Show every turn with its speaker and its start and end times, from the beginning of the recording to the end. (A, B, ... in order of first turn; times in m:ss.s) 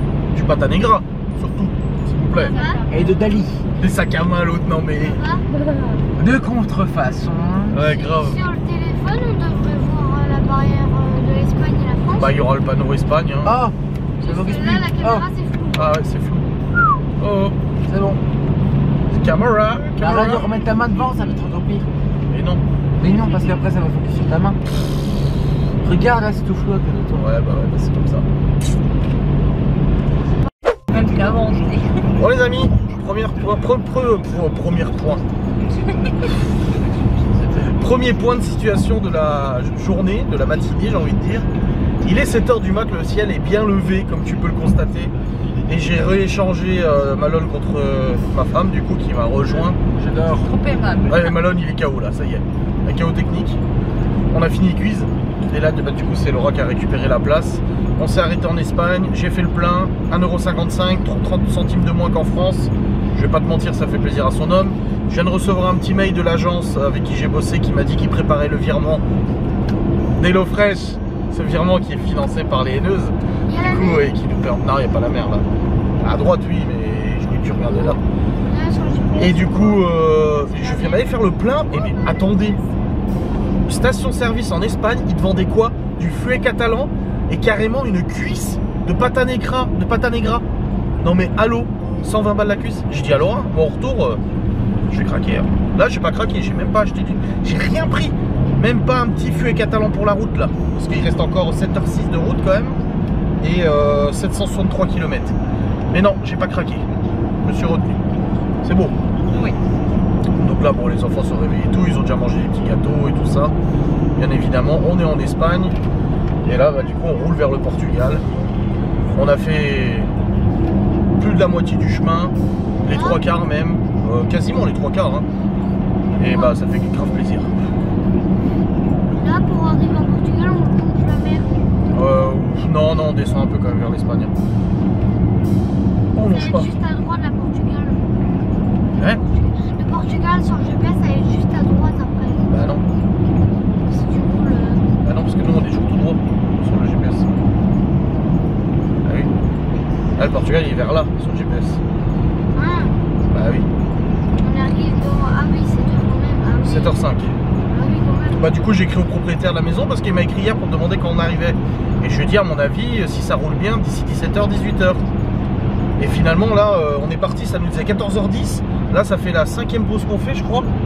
0:00.3-0:02.6 A
0:02.4-0:02.8 B
0:02.4-0:03.4 C
0:02.9-0:03.6 D
0:03.8-0:05.2 A
0:05.0-0:05.4 B
0:06.2-0:08.0 D
0:07.7-0:08.4 A
0:08.0-0:12.4 B
0:12.2-0:13.6 A
0:13.4-0:15.3 D
0:14.2-0:16.0 B
0:15.7-0:16.5 A
0:17.2-0:17.6 A
0:17.9-0:18.2 D
0:19.1-0:20.5 A
0:20.0-0:21.9 D
0:22.3-0:22.6 A
0:23.0-0:24.6 D
0:25.8-0:27.3 D
0:27.2-0:28.3 A
0:30.9-0:32.0 C
0:32.1-0:35.2 A
0:36.9-0:37.8 D
0:37.6-0:41.5 A
0:42.0-0:45.1 A
0:45.7-0:49.8 A
0:49.9-0:50.5 D
0:50.3-0:51.4 C
0:51.1-0:53.6 A
0:54.3-1:09.0 A
1:10.2-1:15.5 A
1:13.5-1:14.1 B
1:16.0-1:18.0 A
1:17.6-1:22.9 B
1:19.2-1:22.6 A
1:23.7-1:30.4 A
1:31.0-1:34.2 A
1:34.9-1:42.8 A
1:43.4-1:45.4 A
1:45.9-1:46.9 A
1:47.4-1:48.0 A
1:48.6-1:49.0 A
1:50.4-1:53.5 A
1:54.2-1:55.8 A
1:56.4-1:58.2 A
1:59.1-2:00.1 A
2:01.2-2:05.3 A
2:02.9-2:03.3 B
2:06.2-2:07.6 A
2:06.2-2:06.6 B
2:09.1-2:11.5 B
2:11.9-2:14.3 A
2:16.2-2:16.7 A
2:16.2-2:22.8 B
2:22.5-2:22.8 A
2:23.8-2:24.8 B
2:25.0-2:27.3 A
2:29.0-2:29.3 A
2:30.2-2:31.8 A
2:32.6-2:33.0 B
2:33.3-2:33.7 A
2:34.4-2:37.1 B
2:36.6-2:37.4 A
2:37.7-2:38.9 B
2:38.3-2:45.1 A
2:46.0-2:50.7 A